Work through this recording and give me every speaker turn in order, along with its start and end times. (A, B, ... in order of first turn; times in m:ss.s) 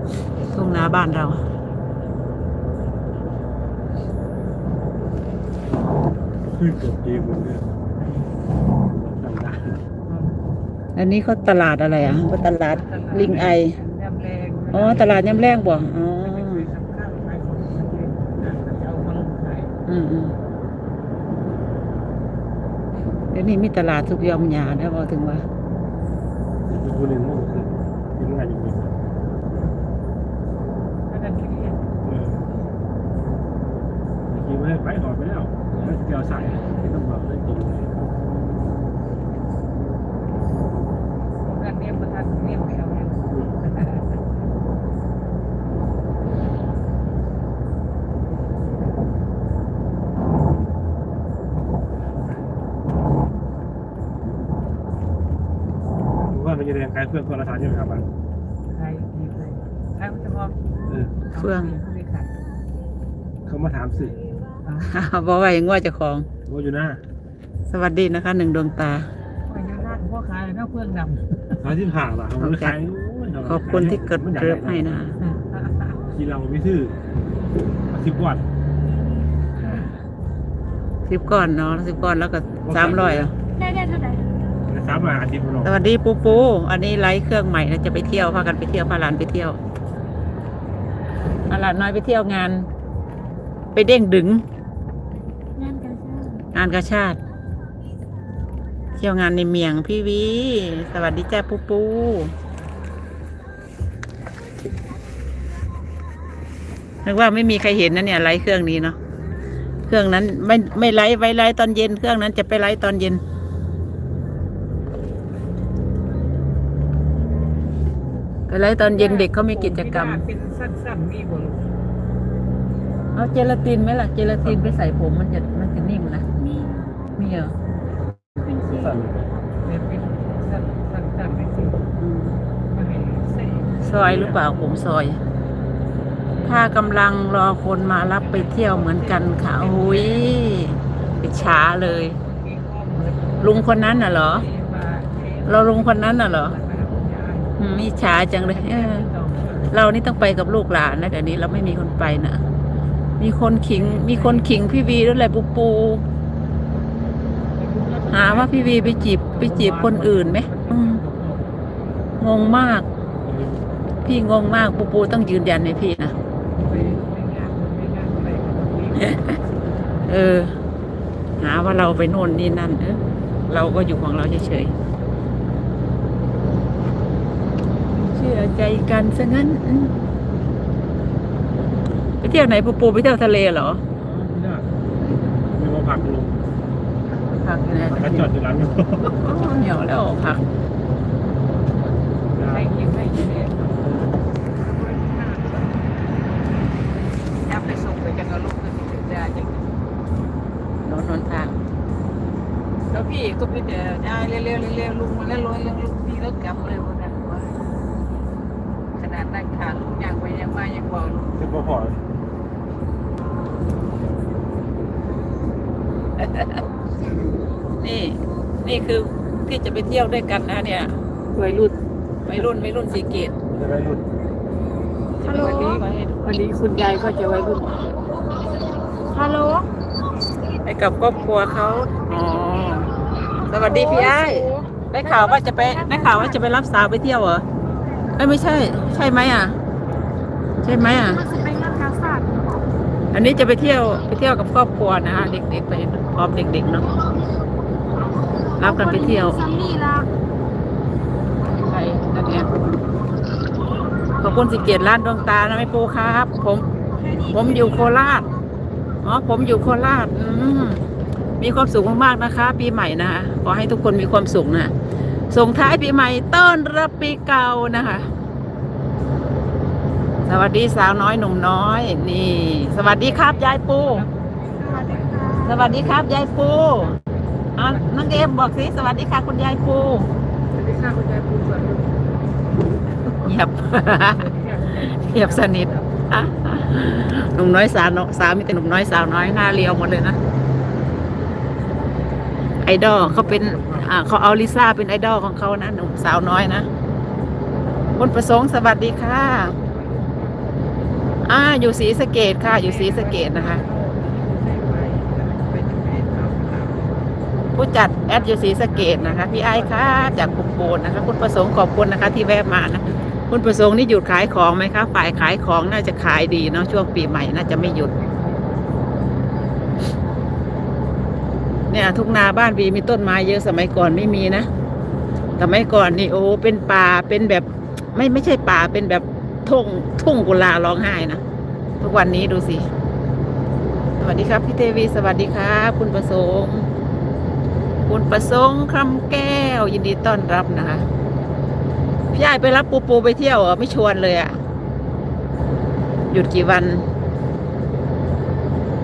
0:00.5-0:01.4 A
0:06.4-0:07.9 B
0:08.9-0:09.8 B
0:10.0-0:10.4 C
0:11.0-0:13.8 A
0:12.0-0:19.7 C
0:14.7-0:16.7 A
0:19.8-0:20.4 A
0:23.3-0:25.4 A
0:26.7-0:29.0 B
0:31.1-0:31.8 C
0:32.0-0:32.5 B
0:34.3-0:38.1 B
0:41.4-0:44.2 C
0:52.0-0:52.3 B
0:56.2-0:58.1 B
0:58.7-1:02.3 C
1:01.3-1:01.7 A
1:03.5-1:04.2 B
1:04.6-1:04.9 C
1:04.8-1:06.3 A
1:06.5-1:07.0 B
1:07.7-1:09.1 A
1:09.5-1:11.6 C
1:11.6-1:14.9 B
1:12.4-1:12.8 A
1:13.4-1:15.2 A
1:15.2-1:16.0 C
1:16.1-1:17.0 B
1:17.9-1:18.4 B
1:21.1-1:23.3 A
1:22.6-1:23.3 B
1:23.6-1:24.2 D
1:24.7-1:25.8 B
1:25.6-1:29.6 A
1:31.5-1:32.7 A
1:33.7-1:34.4 A
1:35.6-1:36.5 D
1:36.5-1:37.2 A
1:39.0-1:42.3 A
1:47.0-1:49.0 A
1:49.9-1:53.2 A
1:58.5-2:00.2 A
1:58.9-2:01.6 C
2:03.1-2:07.5 A
2:04.4-2:04.7 B
2:08.4-2:09.0 D
2:08.7-2:09.3 B
2:09.6-2:11.8 C
2:12.0-2:12.4 A
2:12.7-2:13.9 C
2:13.8-2:15.2 A
2:14.0-2:14.4 B
2:16.3-2:16.7 C
2:16.4-2:22.2 A
2:18.2-2:27.6 C
2:23.4-2:24.5 A
2:25.5-2:26.6 A
2:27.6-2:29.1 A
2:28.2-2:29.6 C
2:29.7-2:32.4 A
2:33.2-2:36.0 A
2:33.7-2:34.9 C
2:37.5-2:41.5 C
2:38.1-2:41.0 A
2:42.2-2:42.9 A
2:43.2-2:43.6 B
2:44.0-2:46.1 A
2:46.6-2:49.4 C
2:49.1-2:49.4 A
2:50.1-2:50.6 A
2:51.4-2:54.7 A
2:58.1-2:59.9 A
3:02.2-3:03.8 A
3:04.0-3:04.7 B
3:05.5-3:06.4 B
3:07.3-3:08.3 A
3:07.9-3:09.3 B
3:09.2-3:10.4 A
3:09.3-3:09.7 C
3:12.2-3:12.7 B
3:12.5-3:13.8 C
3:14.6-3:15.9 C
3:17.4-3:19.7 C
3:20.8-3:21.5 A
3:22.9-3:27.5 C
3:29.0-3:31.4 C
3:31.4-3:32.0 B
3:36.2-3:36.6 A
3:37.8-3:41.7 A
3:41.4-3:41.7 C
3:42.2-3:43.3 A
3:43.5-3:44.0 B
3:45.2-3:45.8 D
3:45.2-3:47.7 C
3:45.7-3:46.0 A
3:49.1-3:49.7 D
3:50.6-3:52.9 A
3:53.5-3:57.4 A
3:53.5-3:56.4 D
3:58.2-3:59.6 A
4:00.6-4:01.2 A
4:00.8-4:02.5 D
4:03.1-4:06.9 A
4:08.6-4:10.1 D
4:08.6-4:09.4 A
4:11.6-4:12.5 A
4:14.2-4:16.6 A
4:17.0-4:17.9 D
4:17.2-4:18.3 A
4:19.0-4:20.8 A
4:21.4-4:24.7 A
4:25.3-4:28.1 A
4:30.2-4:34.0 A
4:32.9-4:38.3 C
4:34.6-4:35.7 D
4:35.4-4:36.9 A
4:37.6-4:40.1 A
4:40.5-4:42.1 C
4:43.2-4:44.2 A
4:44.0-4:46.1 C
4:44.9-4:50.2 A
4:52.6-4:56.7 A
4:52.9-4:53.8 C
4:57.9-4:59.6 A
4:58.9-5:01.3 C
5:01.2-5:03.6 A
5:02.4-5:07.0 C
5:07.5-5:17.9 A
5:07.9-5:10.8 C
5:17.0-5:19.0 C
5:21.7-5:24.5 A
5:25.4-5:31.2 A
5:31.8-5:32.7 A
5:34.0-5:36.7 A
5:37.9-5:40.9 A
5:42.1-5:44.4 A
5:46.1-5:46.9 A